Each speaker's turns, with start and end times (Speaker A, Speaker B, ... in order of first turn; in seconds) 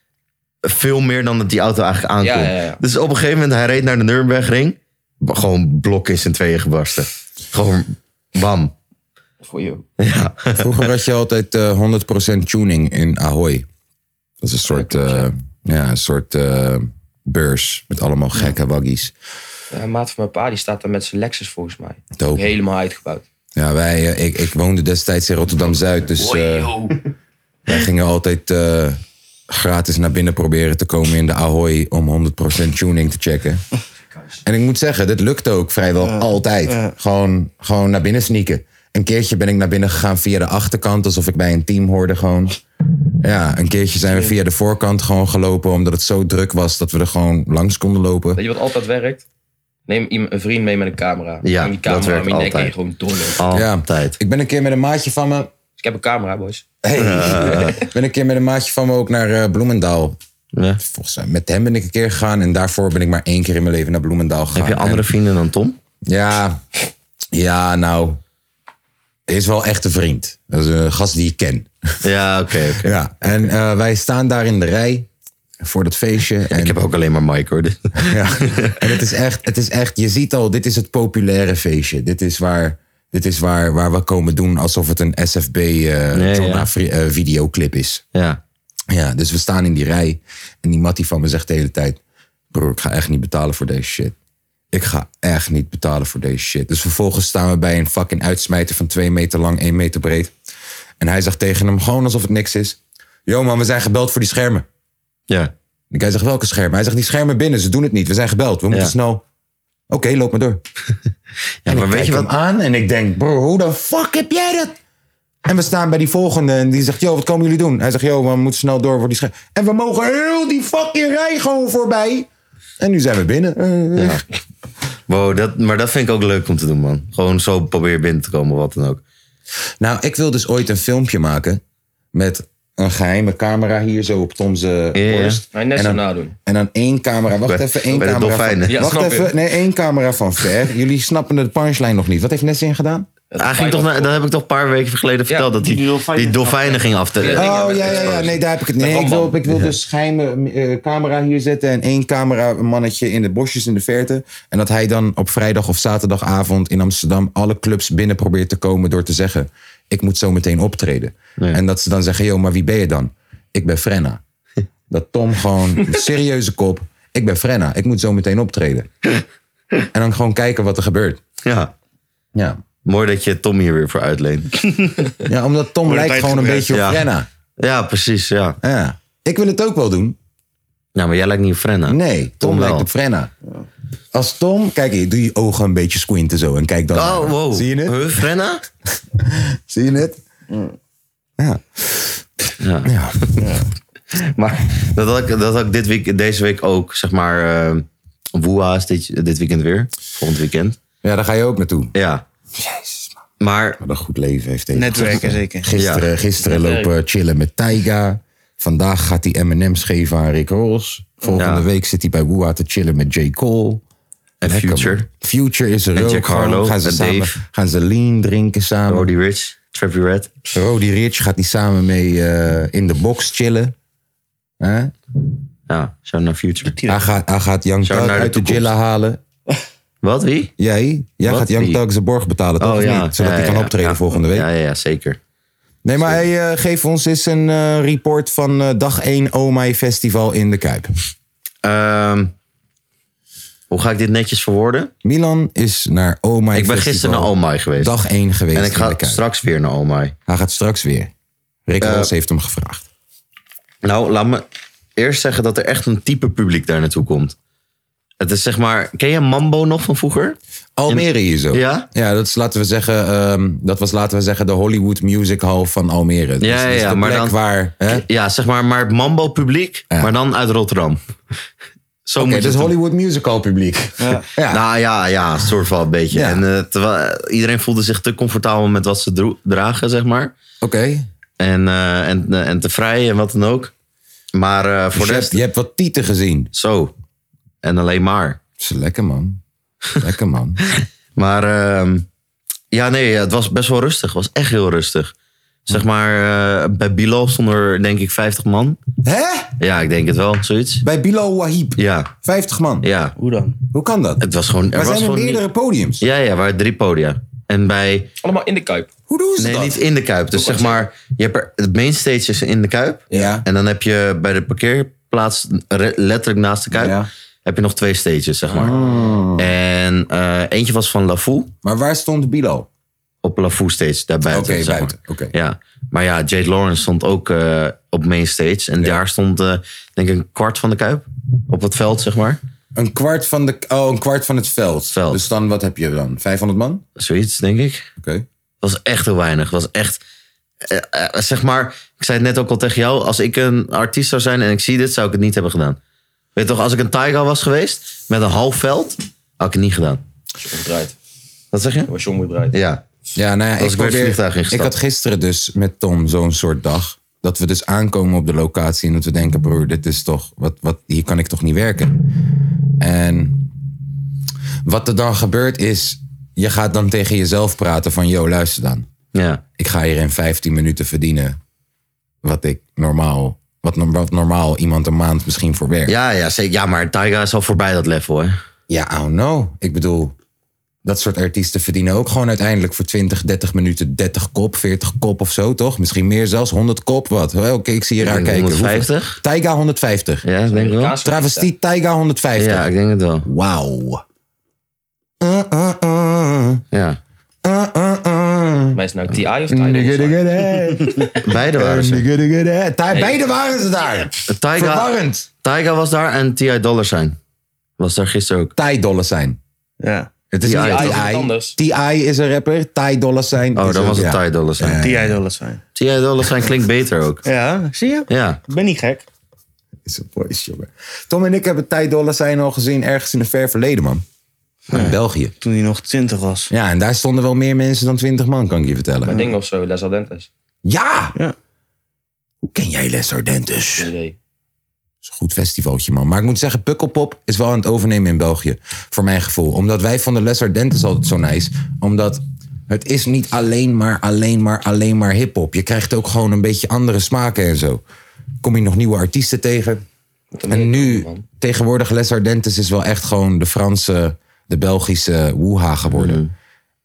Speaker A: 0.6-8.7, 10.0-10.9, 51.4-52.7, 53.4-54.2, 57.0-57.8, 64.5-65.8, 72.0-72.9, 76.5-78.8, 86.1-86.7, 88.1-88.4, 111.6-112.3, 124.0-124.2, 125.1-129.0, 134.9-135.4, 137.5-138.8, 143.4-147.6, 171.4-171.7, 172.8-175.0, 176.7-177.1, 177.6-178.6, 180.9-182.9, 186.9-188.6, 192.6-193.4, 194.1-200.8, 201.9-202.2, 203.4-203.8, 205.8-206.1, 211.4-211.6, 214.4-215.1, 215.9-217.4, 218.9-220.4, 225.7-226.8, 227.8-228.7, 230.0-230.5, 231.2-231.8, 232.6-235.2, 241.6-242.3, 243.7-244.9, 246.5-247.9, 248.5-250.1, 251.8-252.1, 253.8-254.4, 255.0-257.4, 258.2-260.4, 260.9-261.9, 266.4-267.4, 267.9-271.0, 272.1-272.7, 274.5-280.3, 281.4-283.7, 284.3-285.4, 286.5-286.9, 287.6-288.4, 291.1-292.1, 292.7-295.1, 295.6-298.8, 299.6-300.9, 301.8-302.1, 302.8-303.1, 304.2-305.4, 306.0-308.1, 309.4-318.7, 319.4-321.5, 323.2-332.4, 334.9-335.2, 336.9-337.9, 338.6-340.0, 340.6-345.8, 346.4-350.0, 351.5-351.9, 352.5-352.8, 353.6-354.7, 369.1-369.4, 375.9-378.4, 388.0-389.2, 390.2-390.9, 392.4-393.2, 396.7-397.0, 401.2-402.1, 404.3-404.9, 405.4-407.1, 407.8-408.5, 410.4-411.0, 413.6-414.8, 415.8-417.2, 418.1-418.4, 455.9-456.3
Speaker B: 2.2-2.8, 9.4-9.8, 14.7-15.3, 19.7-23.2, 26.2-26.9, 34.1-34.4, 48.4-49.2, 49.9-53.4, 55.8-56.6, 135.5-136.3, 138.7-139.3, 143.3-144.1, 147.2-149.3, 206.4-206.9, 308.2-308.9, 310.4-310.8, 350.4-350.9, 351.9-352.5, 390.5-391.5, 398.7-400.3, 402.9-403.2, 410.5-411.6, 429.1-430.3, 433.8-434.1, 450.3-451.2
Speaker C: 10.6-13.7, 14.4-19.1, 22.2-22.5, 23.6-26.7, 27.7-33.6, 34.4-42.6, 43.2-48.4, 53.5-55.5, 56.8-60.2, 60.8-65.1, 66.1-66.6, 67.3-68.2, 69.3-71.7, 72.8-75.1, 75.6-76.8, 78.0-88.0, 88.9-92.0, 92.5-94.1, 94.7-100.3, 101.0-104.7, 105.9-109.2, 109.9-110.6, 111.7-114.8, 115.4-122.3, 122.8-124.2, 129.8-131.6, 132.1-143.1, 147.3-164.2, 164.9-168.9, 169.9-171.2, 172.3-172.6, 175.2-177.3, 178.6-180.2, 181.9-183.3, 184.1-188.3, 189.2-190.2, 191.4-192.3, 192.8-193.4, 201.0-201.9, 202.6-203.1, 203.8-213.8, 214.4-219.1, 220.5-223.7, 224.6-224.9, 226.9-229.2, 230.6-234.5, 235.8-240.9, 245.0-249.2, 250.3-251.1, 251.7-252.9, 260.8-268.1, 272.2-274.6, 276.1-276.4, 280.6-281.1, 284.9-286.5, 288.6-289.4, 290.0-290.6, 299.0-299.5, 300.8-302.9, 303.7-306.1, 309.1-309.8, 313.1-313.4, 316.7-317.1, 318.5-319.5, 321.6-322.7, 324.3-325.3, 332.7-336.8, 338.0-338.2, 353.1-362.1, 362.8-363.5, 364.6-368.9, 369.6-371.4, 372.2-375.9, 378.7-380.1, 380.9-390.2, 391.0-392.7, 393.2-394.0, 395.2-396.6, 397.4-398.8, 399.5-405.3, 408.6-409.4, 410.3-415.2, 419.9-424.0, 424.7-425.3, 426.5-429.2, 430.6-431.1, 432.4-433.9, 435.0-447.8, 448.4-449.8, 450.5-456.2
Speaker D: 36.0-36.9, 145.6-147.0, 175.8-176.7, 193.4-193.7, 204.7-205.7, 226.6-227.0, 274.0-274.2, 303.2-303.6, 409.8-410.1, 414.8-415.6, 417.2-419.1, 424.7-426.5, 429.1-429.3